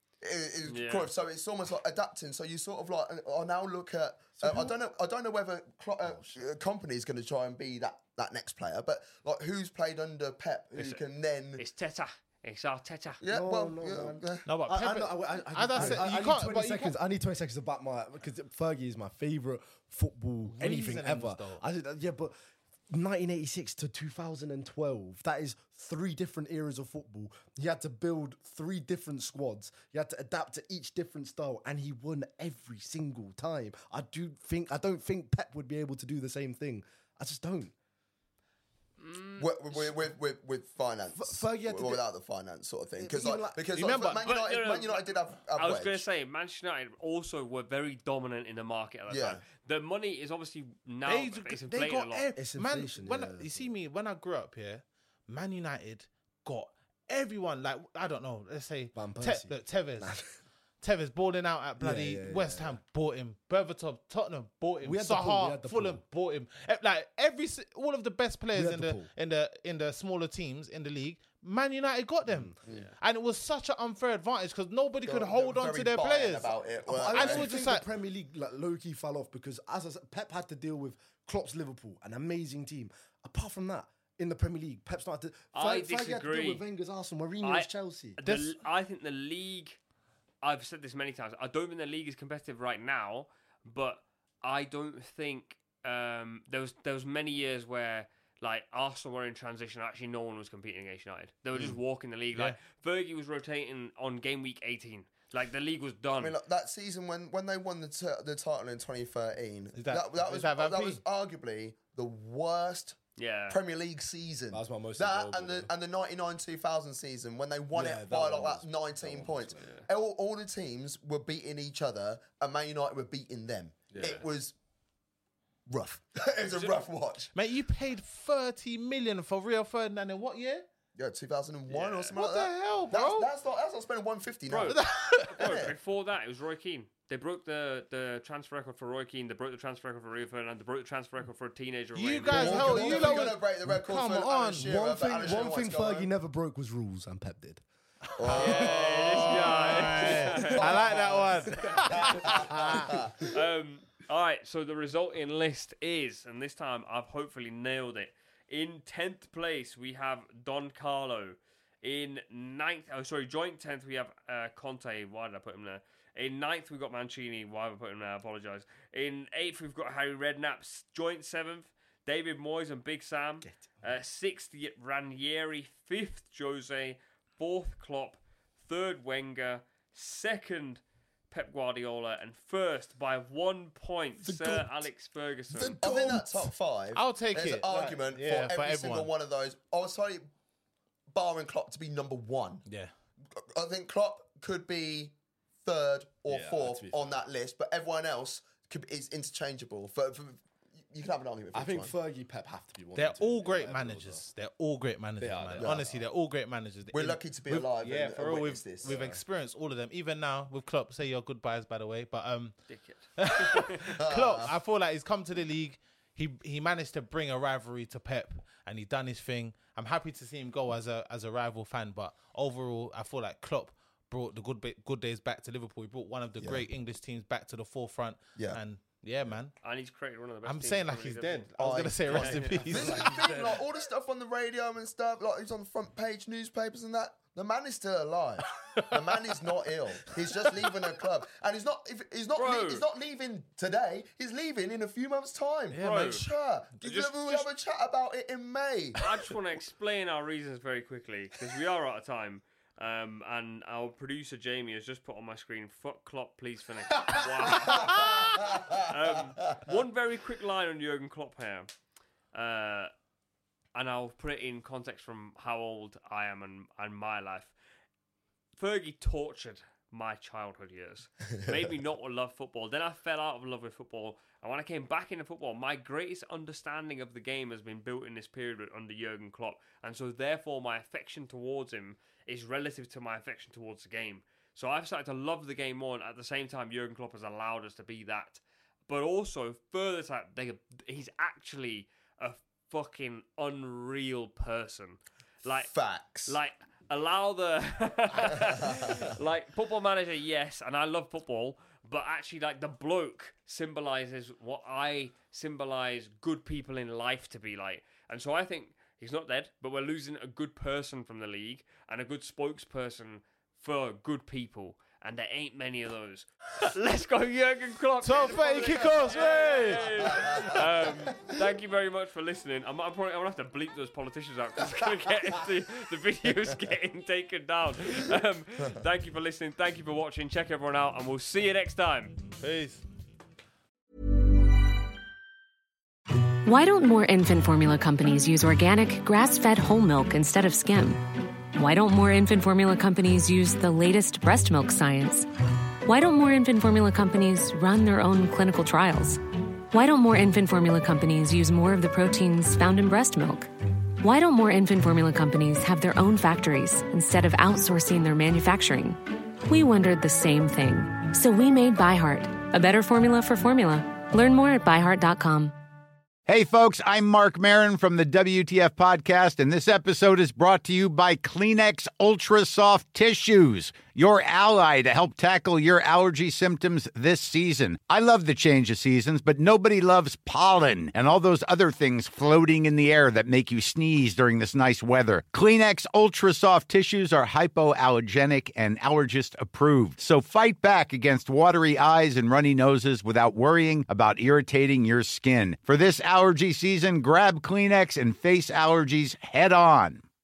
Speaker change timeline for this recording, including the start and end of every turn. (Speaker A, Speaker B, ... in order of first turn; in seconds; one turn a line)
Speaker A: 0.2-11.6
Speaker B: 0.7-1.1
Speaker C: 4.4-4.8
Speaker C: 6.0-6.4
Speaker B: 10.8-11.0
Speaker B: 11.6-13.2
Speaker A: 13.2-15.1
Speaker C: 13.2-22.3
Speaker D: 14.5-16.9
Speaker A: 15.7-16.1
Speaker D: 20.5-21.6
Speaker C: 22.9-37.7
Speaker B: 39.0-40.1
Speaker A: 39.4-46.0
Speaker C: 41.1-42.0
Speaker C: 43.0-43.7
Speaker D: 43.8-44.2
Speaker B: 44.2-52.3
Speaker A: 49.1-49.4
Speaker D: 51.1-60.2
Speaker C: 52.4-53.7
Speaker C: 58.9-60.3
Speaker D: 60.8-76.5
Speaker C: 61.8-62.8
Speaker C: 64.8-66.0
Speaker C: 68.5-69.1
Speaker C: 72.3-72.6
Speaker B: 72.7-73.0
Speaker A: 75.1-77.5
Speaker C: 76.9-88.2
Speaker D: 77.1-77.8
Speaker B: 85.5-86.6
Speaker B: 87.4-89.8
Speaker D: 88.2-88.6
Speaker B: 90.4-106.3
Speaker A: 106.2-113.0
Speaker D: 109.8-111.0
Speaker B: 113.2-113.6
Speaker A: 113.5-124.5
Speaker C: 114.5-115.7
Speaker C: 117.7-119.7
Speaker B: 119.6-119.9
Speaker C: 123.9-124.2
Speaker A: 125.7-127.3
Speaker B: 126.5-126.8
Speaker D: 127.3-130.7
Speaker A: 131.0-134.8
Speaker B: 131.7-132.1
Speaker D: 132.2-133.3
Speaker B: 134.5-143.3
Speaker D: 134.7-135.4
Speaker A: 135.4-135.7
Speaker D: 141.9-144.8
Speaker A: 142.3-146.1
Speaker C: 144.4-147.6
Speaker A: 148.2-153.1
Speaker D: 148.2-152.9
Speaker B: 148.4-150.9
Speaker C: 150.3-151.0
Speaker C: 151.7-152.8
Speaker B: 153.2-185.8
Speaker C: 184.2-184.8
Speaker C: 185.6-186.5
Speaker A: 185.6-190.3
Speaker D: 186.9-189.1
Speaker A: 191.1-192.7
Speaker A: 193.4-195.1
Speaker A: 195.7-201.9
Speaker C: 196.3-197.1
Speaker C: 201.5-204.2
Speaker D: 202.9-212.6
Speaker C: 205.2-206.1
Speaker A: 205.6-205.8
Speaker A: 206.9-208.9
Speaker C: 208.8-209.2
Speaker B: 212.7-213.9
Speaker D: 213.2-229.6
Speaker A: 214.0-214.5
Speaker A: 226.4-226.7
Speaker B: 229.6-231.5
Speaker D: 230.4-233.2
Speaker A: 231.6-249.0
Speaker B: 232.1-233.6
Speaker D: 238.7-239.0
Speaker B: 242.4-242.9
Speaker D: 245.7-246.2
Speaker B: 245.8-246.2
Speaker B: 246.8-247.5
Speaker B: 249.0-261.7
Speaker D: 257.9-258.2
Speaker A: 257.9-258.7
Speaker B: 262.3-262.9
Speaker B: 263.8-267.6
Speaker B: 268.6-295.7
Speaker A: 295.7-296.4
Speaker B: 296.3-332.2
Speaker D: 318.0-320.2
Speaker A: 320.1-320.5
Speaker D: 332.4-332.8
Speaker E: 336.4-345.3
Speaker E: 345.8-365.6
Speaker F: 366.3-400.0